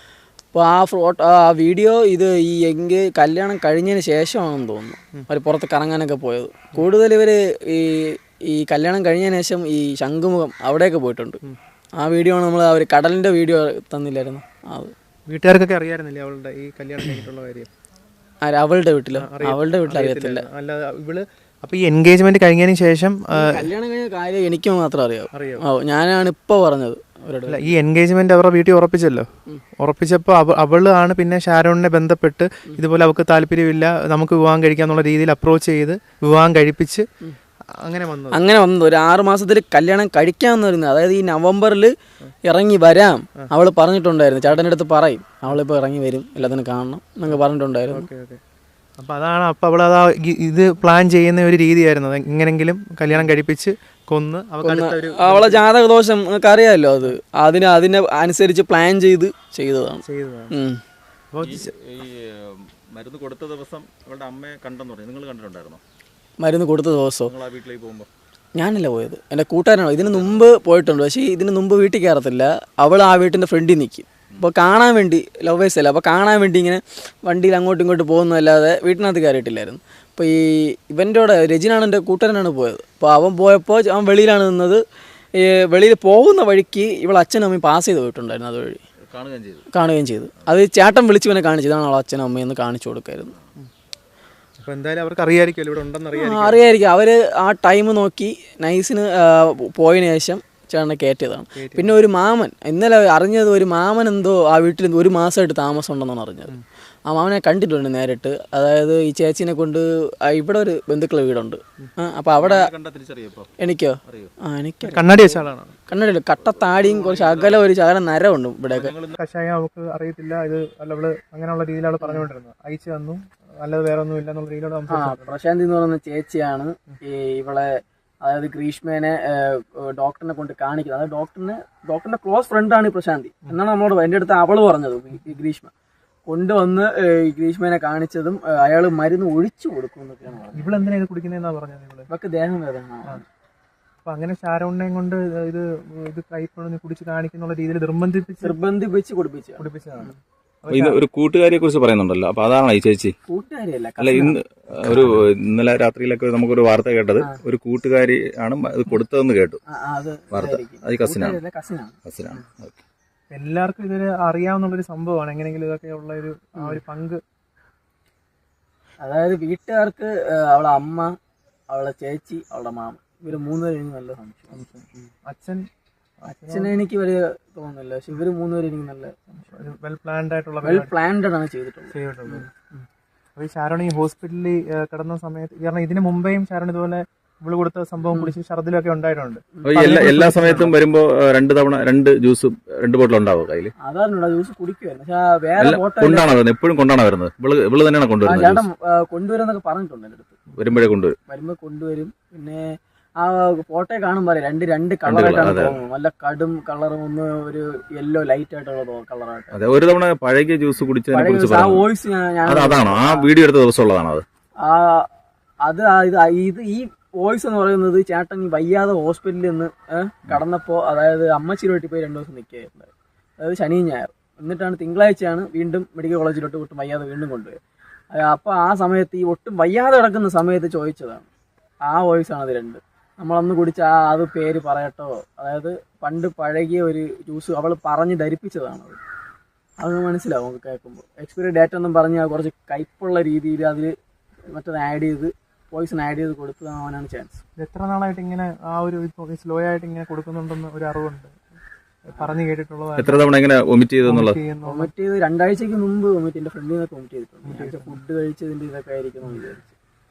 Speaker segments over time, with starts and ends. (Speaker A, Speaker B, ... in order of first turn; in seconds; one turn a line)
Speaker A: 0.5-11.4
Speaker A: 12.0-14.9
Speaker B: 15.3-17.7
Speaker A: 18.4-20.4
Speaker B: 19.1-23.7
Speaker A: 23.4-27.7
Speaker B: 25.3-25.6
Speaker B: 27.5-29.3
Speaker B: 29.8-37.0
Speaker B: 37.8-38.4
Speaker A: 38.3-41.9
Speaker A: 42.4-48.0
Speaker B: 47.2-48.4
Speaker B: 49.0-55.6
Speaker A: 54.6-60.8
Speaker B: 60.0-60.5
Speaker B: 61.3-61.7
Speaker C: 61.4-65.8
Speaker A: 66.4-67.3
Speaker C: 67.2-68.1
Speaker A: 68.5-84.8
Speaker C: 70.0-70.4
Speaker A: 85.3-88.8
Speaker C: 89.1-89.6
Speaker A: 89.7-93.3
Speaker B: 94.6-96.6
Speaker A: 96.1-112.7
Speaker B: 101.5-102.0
Speaker C: 112.3-113.5
Speaker A: 113.6-118.9
Speaker C: 114.0-114.3
Speaker B: 114.8-115.7
Speaker C: 116.4-117.6
Speaker C: 118.7-119.2
Speaker B: 119.1-125.3
Speaker A: 124.9-135.7
Speaker A: 136.3-140.8
Speaker B: 140.5-142.1
Speaker A: 142.1-143.2
Speaker B: 144.0-148.6
Speaker A: 148.4-150.1
Speaker B: 149.6-151.0
Speaker C: 150.7-153.1
Speaker A: 153.3-154.3
Speaker C: 154.0-159.6
Speaker A: 159.7-162.4
Speaker C: 160.3-161.4
Speaker C: 162.1-162.8
Speaker B: 163.3-167.2
Speaker A: 169.0-171.1
Speaker A: 171.7-174.6
Speaker B: 174.5-175.6
Speaker B: 176.2-176.7
Speaker A: 176.3-179.1
Speaker B: 179.4-180.9
Speaker A: 180.6-182.5
Speaker B: 181.9-182.8
Speaker B: 183.4-190.7
Speaker A: 188.1-188.3
Speaker A: 189.6-189.9
Speaker C: 189.6-193.7
Speaker A: 193.8-196.3
Speaker C: 195.6-198.7
Speaker A: 198.2-200.4
Speaker C: 200.6-201.2
Speaker A: 201.3-209.7
Speaker C: 205.1-205.8
Speaker C: 209.5-211.9
Speaker A: 211.1-213.3
Speaker C: 212.4-214.2
Speaker A: 214.6-215.1
Speaker A: 215.6-227.6
Speaker A: 228.1-231.3
Speaker A: 231.9-239.0
Speaker A: 239.8-243.9
Speaker A: 244.5-247.4
Speaker B: 247.6-251.3
Speaker B: 252.0-253.3
Speaker C: 253.0-254.4
Speaker B: 254.0-254.9
Speaker A: 254.7-259.7
Speaker B: 257.4-258.0